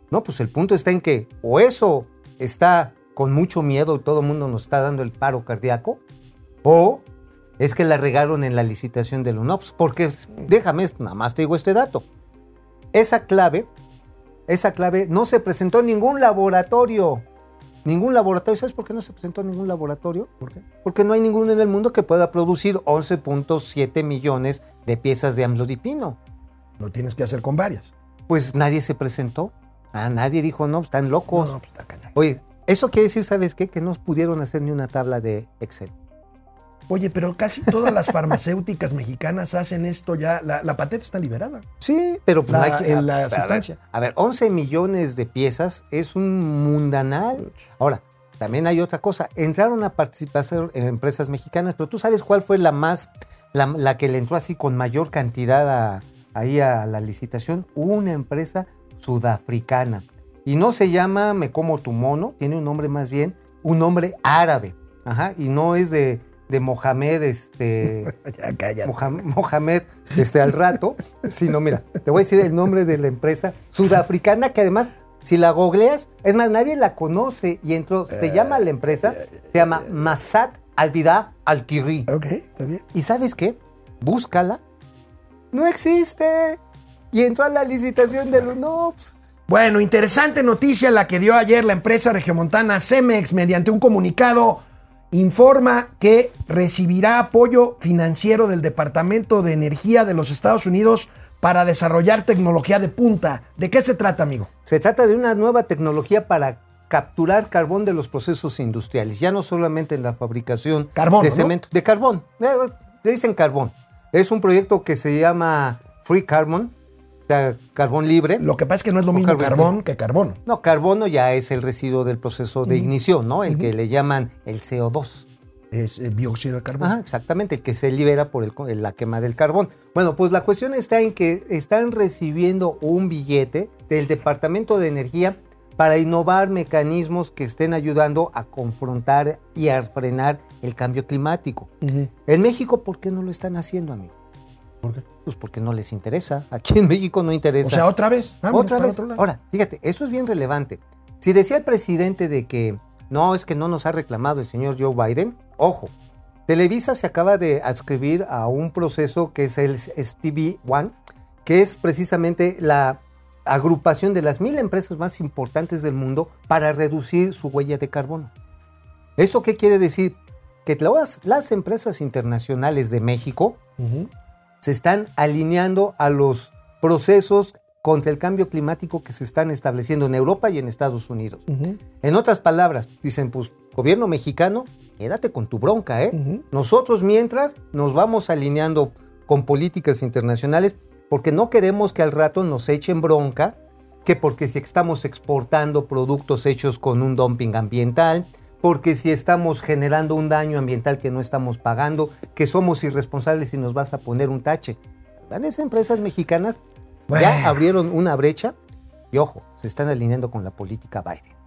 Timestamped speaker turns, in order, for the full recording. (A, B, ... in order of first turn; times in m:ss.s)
0:00.1-0:06.0 A
0:06.6-0:07.0 A
0:07.6-0:12.0 A
0:12.9-0:13.7 A
0:14.5-0:17.2 A
0:17.8-0:20.3 A
0:20.8-0:26.2 A
0:26.8-0:27.9 B
0:28.3-0:31.5 A
0:31.3-0:32.1 B
0:32.1-0:35.9 A
0:36.9-0:41.6 B
0:37.8-0:38.1 A
0:41.8-1:08.1 A
0:42.5-0:43.8 B
1:08.1-1:09.2 B
1:08.8-1:22.1 A
1:18.2-1:18.5 B
1:22.1-1:22.8 B
1:22.9-1:24.6 A
1:25.5-1:26.6 A
1:27.1-1:29.1 A
1:29.5-1:44.5 B
1:44.6-1:56.7 A
1:51.0-1:51.5 B
1:57.3-1:58.4 A
1:58.4-2:00.4 B
1:59.1-1:59.7 A
2:00.4-2:05.3 A
2:05.7-2:07.0 B
2:06.8-2:21.7 A
2:21.8-2:22.1 B
2:22.2-2:24.2 A
2:25.2-2:27.9 A
2:27.6-2:29.2 B
2:28.5-2:35.9 A
2:36.5-2:48.3 A
2:49.2-2:53.6 A
2:53.8-2:54.1 B
2:54.6-3:01.4 A
3:01.5-3:01.8 B
3:02.0-3:26.6 A
3:06.1-3:06.4 B
3:27.1-3:27.6 B
3:27.1-3:28.5 A
3:29.1-3:31.3 A